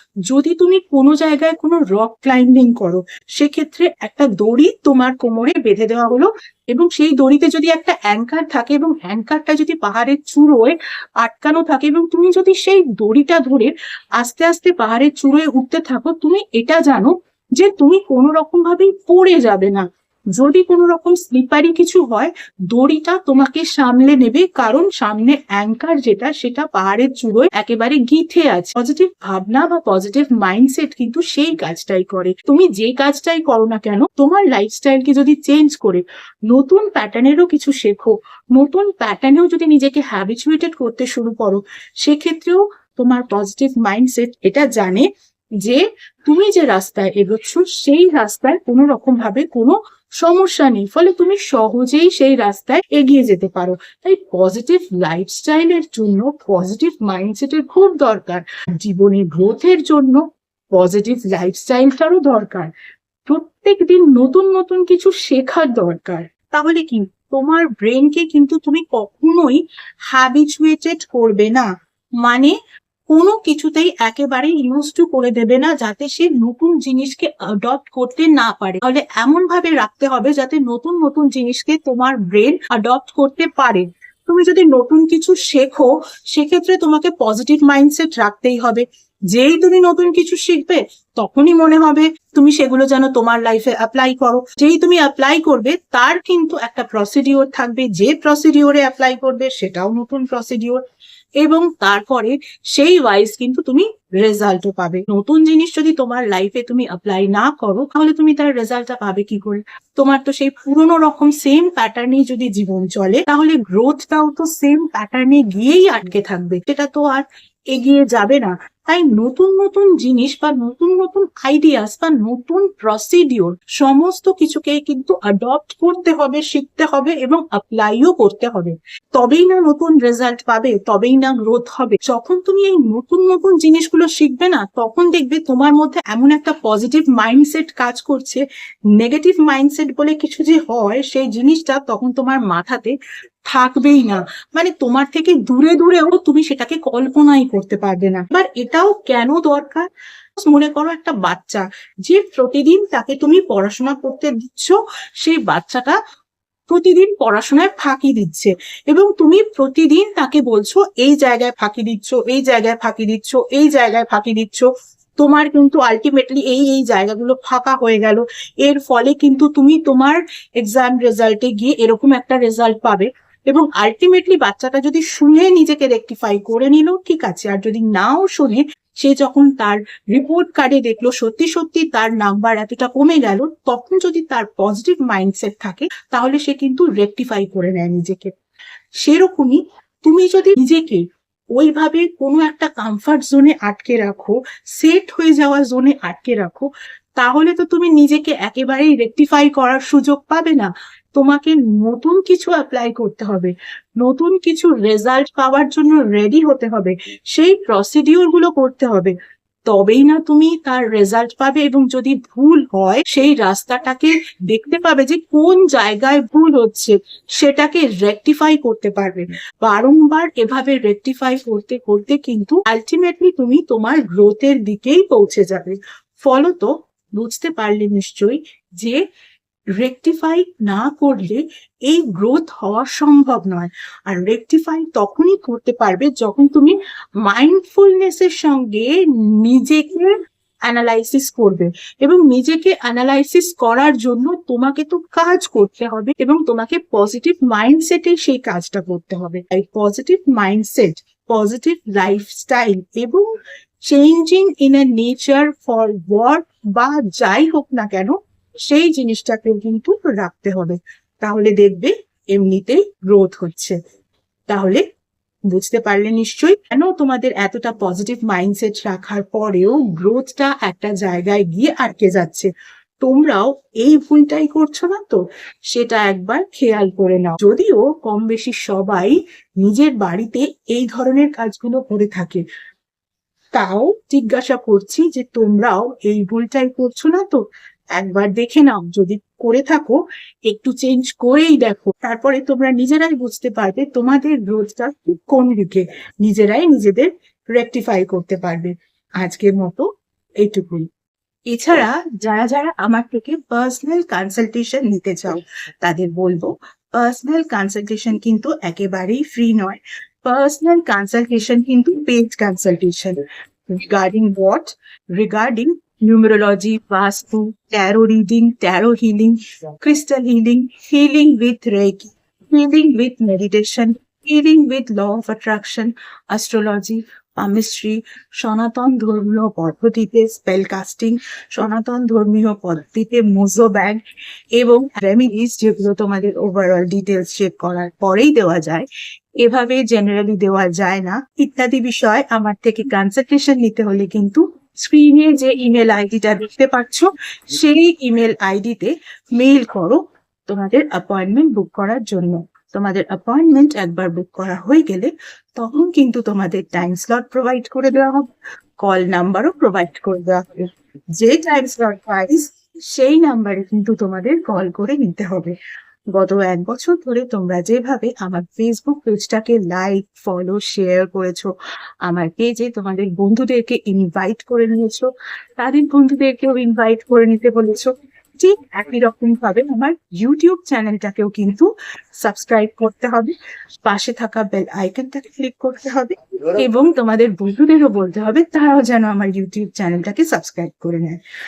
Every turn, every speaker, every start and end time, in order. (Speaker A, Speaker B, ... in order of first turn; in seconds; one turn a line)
Speaker A: 0.3-45.1
Speaker A: 45.6-62.7
Speaker A: 63.3-71.7
Speaker A: 72.2-72.5
Speaker A: 73.1-100.8
Speaker A: 101.4-138.4
Speaker A: 138.9-142.9
Speaker A: 143.5-149.8
Speaker A: 150.4-156.0
Speaker A: 156.7-188.3
Speaker A: 189.0-191.0
Speaker A: 191.6-209.1
Speaker A: 209.7-229.0
Speaker A: 229.8-240.1
Speaker A: 240.7-253.3
Speaker A: 253.8-263.8
Speaker A: 264.5-264.8
Speaker A: 265.5-272.5
Speaker A: 273.0-275.2
Speaker A: 275.7-282.4
Speaker A: 283.5-299.9
Speaker A: 300.4-300.9
Speaker A: 301.5-313.2
Speaker A: 313.7-334.0
Speaker A: 334.6-338.9
Speaker A: 339.4-358.3
Speaker A: 358.8-365.5
Speaker A: 366.1-371.5
Speaker A: 372.1-391.2